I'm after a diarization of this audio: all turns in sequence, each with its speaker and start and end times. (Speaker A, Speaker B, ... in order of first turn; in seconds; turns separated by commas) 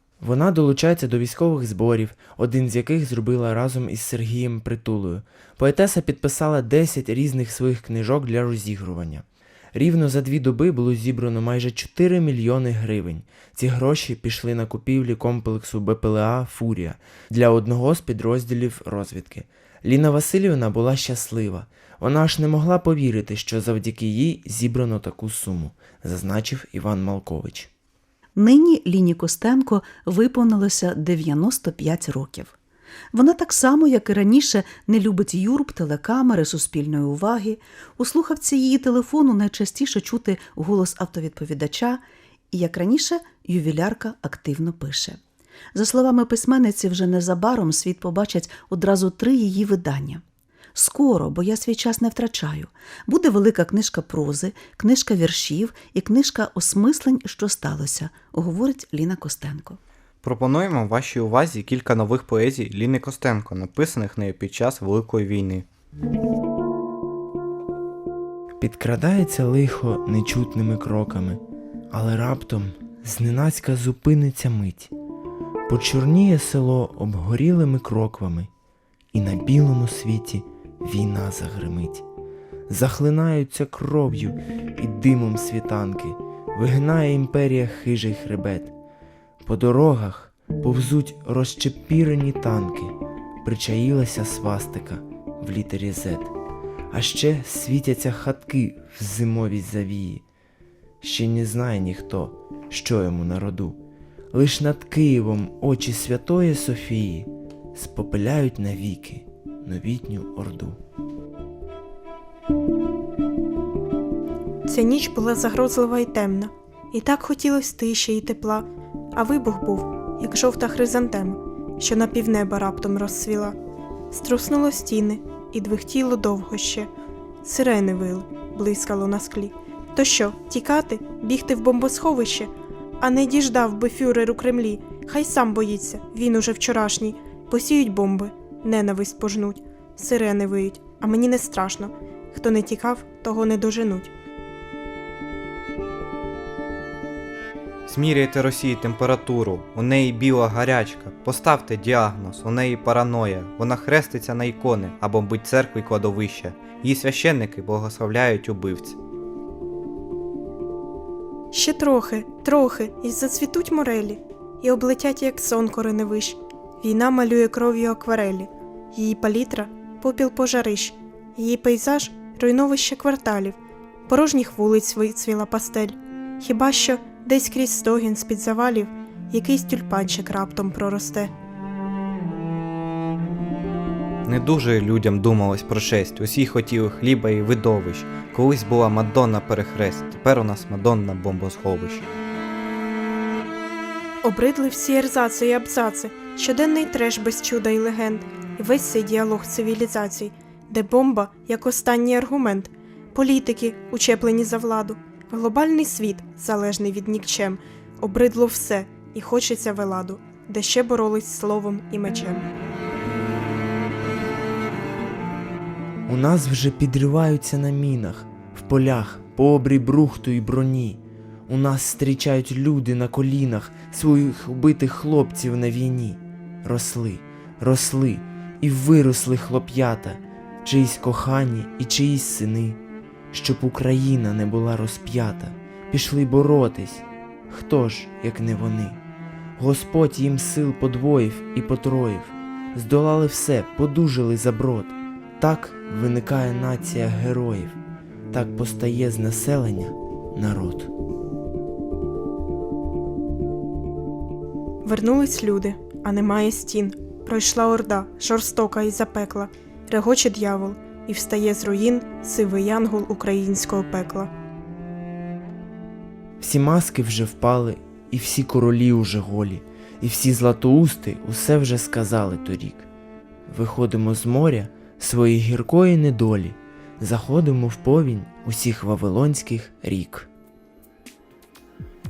Speaker A: 0.2-27.7, Speaker B: 28.4-32.5, Speaker B: 33.1-45.2, Speaker B: 45.7-50.2, Speaker B: 50.7-59.8, Speaker C: 60.2-65.7, Speaker A: 68.6-74.9, Speaker A: 75.7-78.5, Speaker A: 79.1-82.0, Speaker A: 82.7-88.7, Speaker A: 89.4-96.3, Speaker A: 96.9-100.2, Speaker A: 101.0-103.8, Speaker A: 104.3-110.8, Speaker D: 114.7-123.5, Speaker D: 124.1-126.9, Speaker D: 127.4-144.1, Speaker C: 147.8-159.0, Speaker D: 161.5-181.3, Speaker C: 184.3-192.1, Speaker D: 194.2-212.5, Speaker A: 216.1-232.8, Speaker A: 233.3-239.0, Speaker A: 239.6-247.8, Speaker A: 248.3-250.9, Speaker D: 254.8-264.3, Speaker A: 266.4-272.9, Speaker A: 273.5-280.3